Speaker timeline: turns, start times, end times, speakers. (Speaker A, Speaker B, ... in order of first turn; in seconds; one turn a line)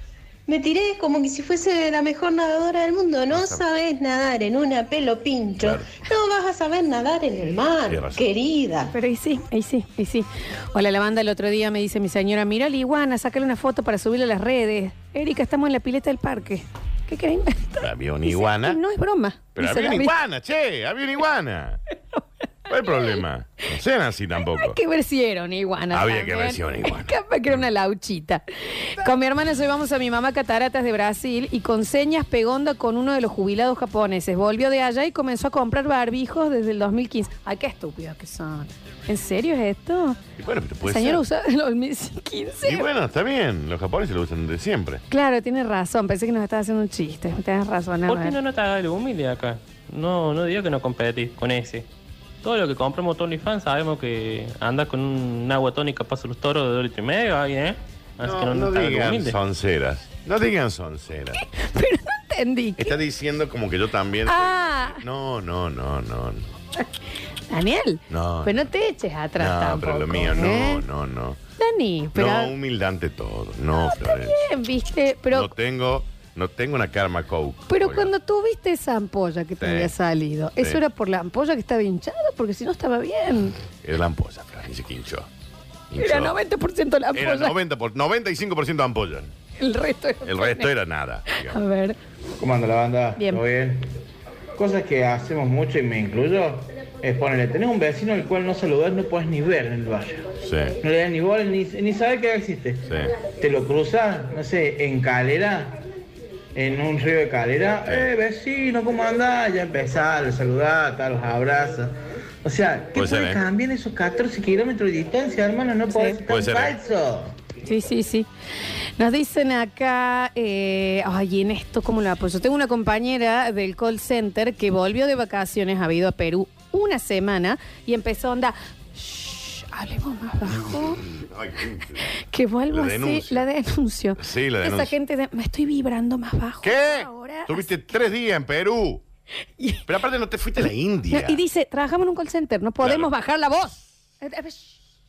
Speaker A: 0.5-8.9
Speaker B: 3.3-3.6
Speaker B: 5.6-5.9
Speaker B: 7.9-8.2
Speaker C: 8.9-20.1
Speaker B: 17.8-18.8
Speaker B: 19.6-21.8
Speaker B: 22.7-24.8
Speaker C: 24.5-28.4
Speaker B: 25.9-27.6
Speaker C: 29.0-40.2
Speaker B: 40.4-41.2
Speaker C: 40.8-42.9
Speaker B: 42.6-45.0
Speaker C: 45.1-48.4
Speaker D: 48.1-51.9
Speaker D: 52.4-59.4
Speaker B: 58.2-61.4
Speaker C: 61.4-63.0
Speaker B: 62.8-66.5
Speaker C: 64.3-65.0
Speaker C: 67.5-70.8
Speaker B: 68.1-68.5
Speaker B: 69.4-71.4
Speaker C: 71.6-72.5
Speaker B: 72.2-74.5
Speaker C: 73.8-75.5
Speaker B: 75.3-78.1
Speaker C: 77.7-83.5
Speaker B: 79.6-79.9
Speaker B: 83.8-85.3
Speaker B: 85.9-86.3
Speaker C: 86.0-87.5
Speaker B: 87.1-89.3
Speaker C: 89.6-90.7
Speaker B: 90.2-91.6
Speaker C: 91.3-92.0
Speaker E: 92.4-93.8
Speaker C: 93.2-93.4
Speaker E: 94.6-102.8
Speaker B: 100.4-100.8
Speaker B: 102.9-103.2
Speaker E: 103.4-105.8
Speaker E: 106.5-117.3
Speaker B: 107.8-108.1
Speaker B: 113.0-113.4
Speaker C: 115.9-116.2
Speaker B: 116.3-116.8
Speaker C: 117.6-118.3
Speaker C: 119.0-131.0
Speaker B: 130.7-132.0
Speaker C: 132.3-137.7
Speaker B: 132.7-133.4
Speaker B: 134.2-134.9
Speaker B: 136.6-139.0
Speaker C: 139.6-139.8
Speaker B: 139.9-141.4
Speaker C: 141.1-144.7
Speaker B: 142.8-143.1